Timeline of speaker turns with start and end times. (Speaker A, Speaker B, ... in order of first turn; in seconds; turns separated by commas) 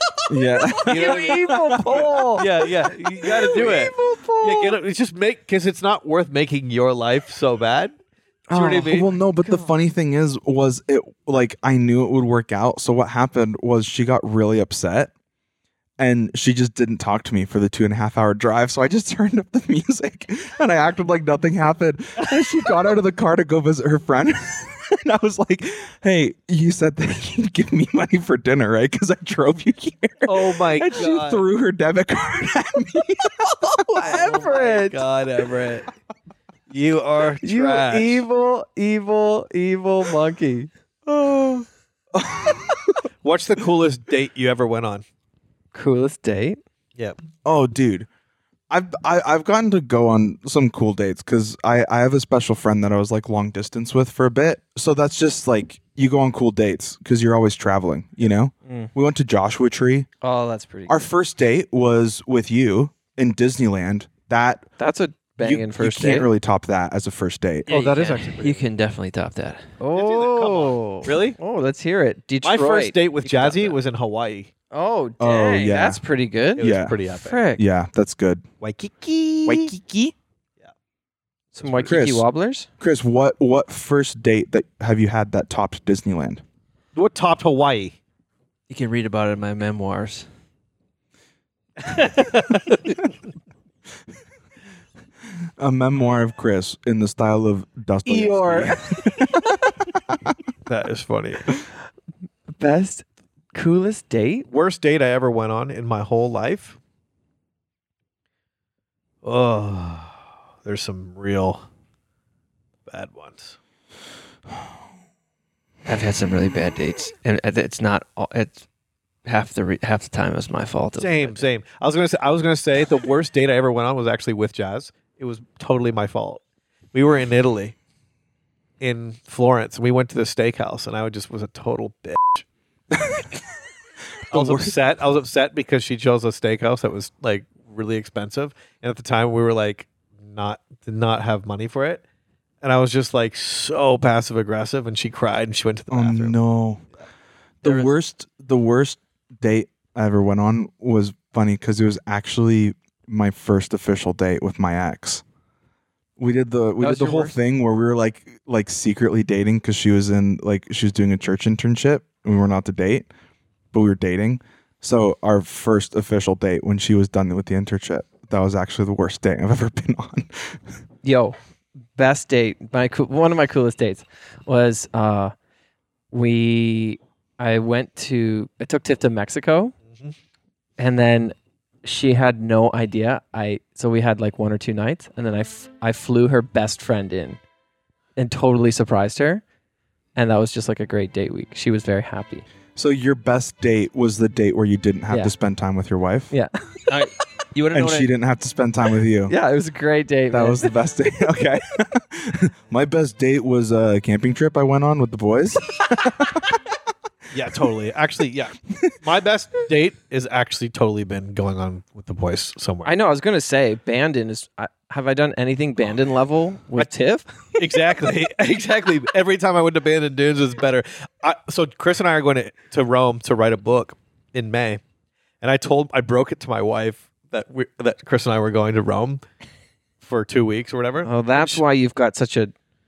Speaker A: 0.3-2.5, Speaker B: 0.8-2.5, Speaker C: 0.9-7.9, Speaker B: 3.2-4.8, Speaker B: 8.5-9.7, Speaker C: 8.5-9.1, Speaker A: 8.8-15.1, Speaker A: 16.0-33.5, Speaker C: 30.3-31.4, Speaker C: 33.9-35.9, Speaker B: 33.9-35.0, Speaker C: 36.7-38.2, Speaker B: 37.4-40.7, Speaker A: 41.1-43.0, Speaker C: 43.2-45.0, Speaker B: 45.7-46.6, Speaker A: 47.4-48.1, Speaker A: 48.7-60.1, Speaker B: 60.2-61.0, Speaker A: 60.9-64.7, Speaker B: 64.8-66.3, Speaker A: 65.4-67.7, Speaker B: 67.7-68.4, Speaker D: 67.7-69.7, Speaker C: 67.7-68.6, Speaker B: 69.8-73.8, Speaker C: 69.9-71.4, Speaker C: 72.4-74.5, Speaker B: 74.7-77.6, Speaker A: 75.2-76.0, Speaker C: 76.6-77.4, Speaker A: 76.6-77.0, Speaker A: 77.6-78.4, Speaker C: 78.6-79.7, Speaker A: 79.5-80.1, Speaker B: 81.5-82.7, Speaker C: 81.6-82.0, Speaker A: 81.9-82.3, Speaker A: 82.8-86.4, Speaker C: 87.0-88.0, Speaker D: 88.7-90.3, Speaker C: 91.8-92.9, Speaker A: 95.6-99.5, Speaker B: 98.0-99.1, Speaker C: 100.7-101.5, Speaker B: 102.6-104.5, Speaker C: 104.5-106.8, Speaker C: 109.2-111.7, Speaker C: 112.9-113.6, Speaker D: 115.9-118.6, Speaker D: 119.2-121.5, Speaker C: 121.0-126.4, Speaker C: 126.9-127.8, Speaker C: 128.8-132.5, Speaker A: 132.9-133.4, Speaker A: 134.3-134.7, Speaker C: 134.3-142.0, Speaker C: 142.6-146.4, Speaker A: 145.9-146.8, Speaker A: 147.6-155.2, Speaker D: 147.6-147.9, Speaker A: 156.2-163.1, Speaker B: 156.8-157.3, Speaker A: 163.7-170.6, Speaker B: 171.0-171.4, Speaker B: 171.9-175.3, Speaker B: 176.1-179.7, Speaker B: 180.8-187.4, Speaker B: 188.2-189.4, Speaker B: 190.2-192.4, Speaker A: 192.8-196.3, Speaker B: 196.3-196.8, Speaker D: 196.9-198.1, Speaker A: 197.7-199.3, Speaker B: 199.3-200.7, Speaker A: 200.3-206.6, Speaker C: 207.3-212.9, Speaker B: 212.8-217.3, Speaker C: 217.6-224.8, Speaker C: 225.4-229.2, Speaker C: 230.0-231.6, Speaker B: 231.0-232.5